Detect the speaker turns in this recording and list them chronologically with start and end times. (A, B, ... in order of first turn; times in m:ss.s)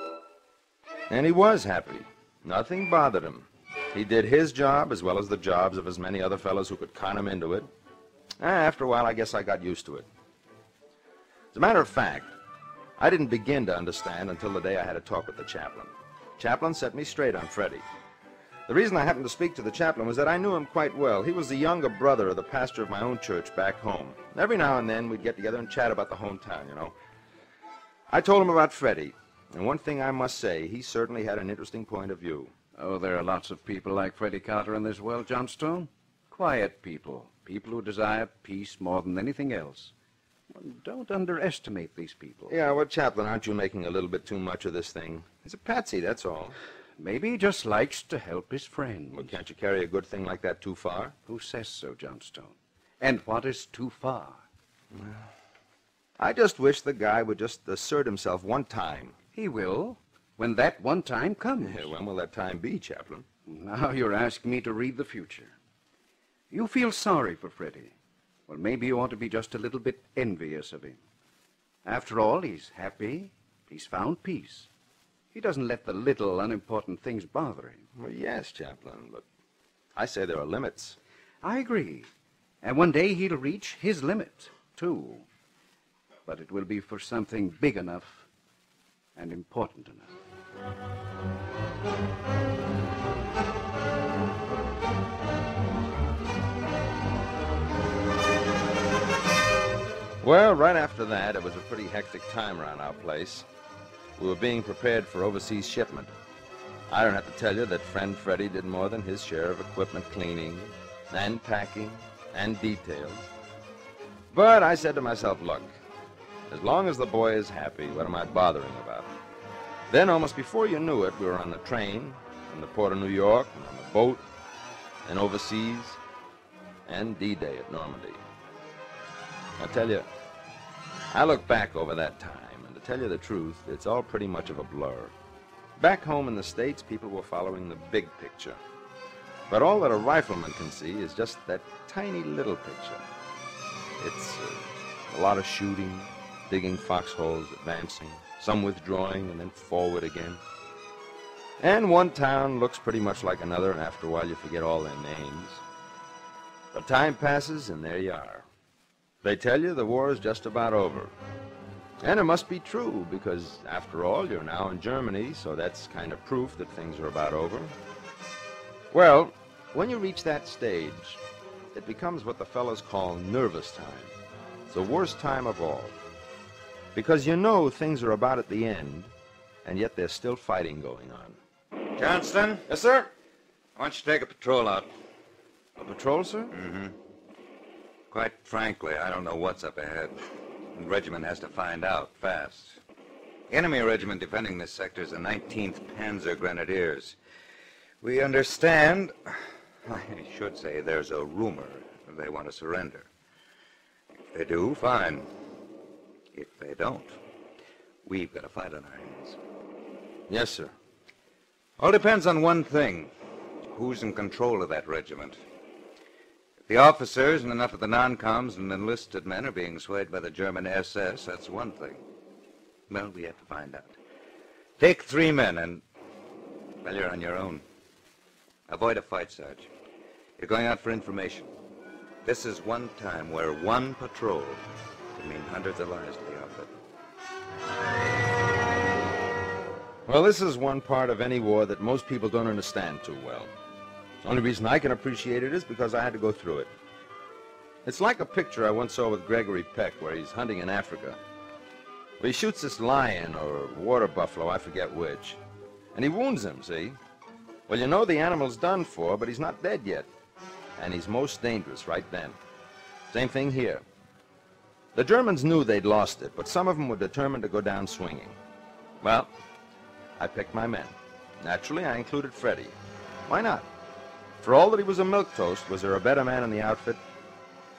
0:01.1-0:07.7 A
0:08.4-0:10.1 A
0:11.5-0:12.3 A
0:13.0-0:17.9 A
0:18.7-0:26.9 A
0:28.1-0:32.5 A
0:32.8-0:39.9 B
0:40.5-0:42.5 B
0:42.5-0:46.6 A
0:47.0-0:49.4 B
0:49.1-0:51.1 A
0:51.2-0:54.4 B
0:54.9-0:55.3 A
0:56.2-0:59.2 A
0:59.3-1:01.9 B
1:01.6-1:03.2 A
1:03.4-1:05.5 B
1:06.5-1:07.9 B
1:08.5-1:11.0 B
1:11.8-1:14.7 B
1:15.3-1:17.8 B
1:18.0-1:19.2 A
1:19.9-1:21.0 A
1:21.4-1:22.1 B
1:22.6-1:25.2 B
1:26.2-1:28.3 B
1:29.2-1:30.1 B
1:40.2-1:43.5 A
1:44.2-1:46.1 A
1:46.9-1:53.3 A
1:54.3-1:55.7 A
1:56.5-1:59.1 A
1:59.9-2:04.2 A
2:05.0-2:06.0 A
2:06.8-2:08.2 A
2:09.6-2:10.1 A
2:11.1-2:15.1 A
2:15.8-2:18.6 A
2:19.5-2:23.0 A
2:24.0-2:30.4 A
2:31.6-2:35.6 A
2:36.7-2:38.5 A
2:39.2-2:41.1 A
2:42.0-2:47.7 A
2:48.9-2:51.2 A
2:51.7-2:54.1 A
2:54.7-2:55.9 A
2:56.9-2:59.1 A
2:59.6-3:01.4 A
3:02.0-3:02.9 C
3:02.7-3:03.1 A
3:03.8-3:04.9 C
3:05.8-3:06.5 A
3:06.5-3:06.9 C
3:08.1-3:10.2 C
3:10.7-3:12.8 C
3:13.5-3:17.1 C
3:18.0-3:23.1 C
3:24.3-3:25.3 C
3:26.3-3:27.1 C
3:28.0-3:29.4 C
3:30.3-3:30.7 A
3:31.8-3:33.1 C
3:33.7-3:35.4 C
3:36.7-3:42.0 C
3:42.9-3:44.0 C
3:44.8-3:45.8 C
3:46.8-3:47.6 C
3:48.7-3:49.7 C
3:50.4-3:51.5 C
3:52.2-3:54.6 C
3:55.1-3:56.7 C
4:00.0-4:03.5 A
4:04.2-4:06.7 A
4:07.8-4:11.2 A
4:12.2-4:15.4 A
4:15.9-4:17.0 A
4:17.7-4:20.1 A
4:20.8-4:22.4 A
4:23.1-4:23.8 A
4:24.9-4:28.4 A
4:29.0-4:29.3 A
4:30.2-4:32.7 A
4:33.3-4:33.7 A
4:34.4-4:37.0 A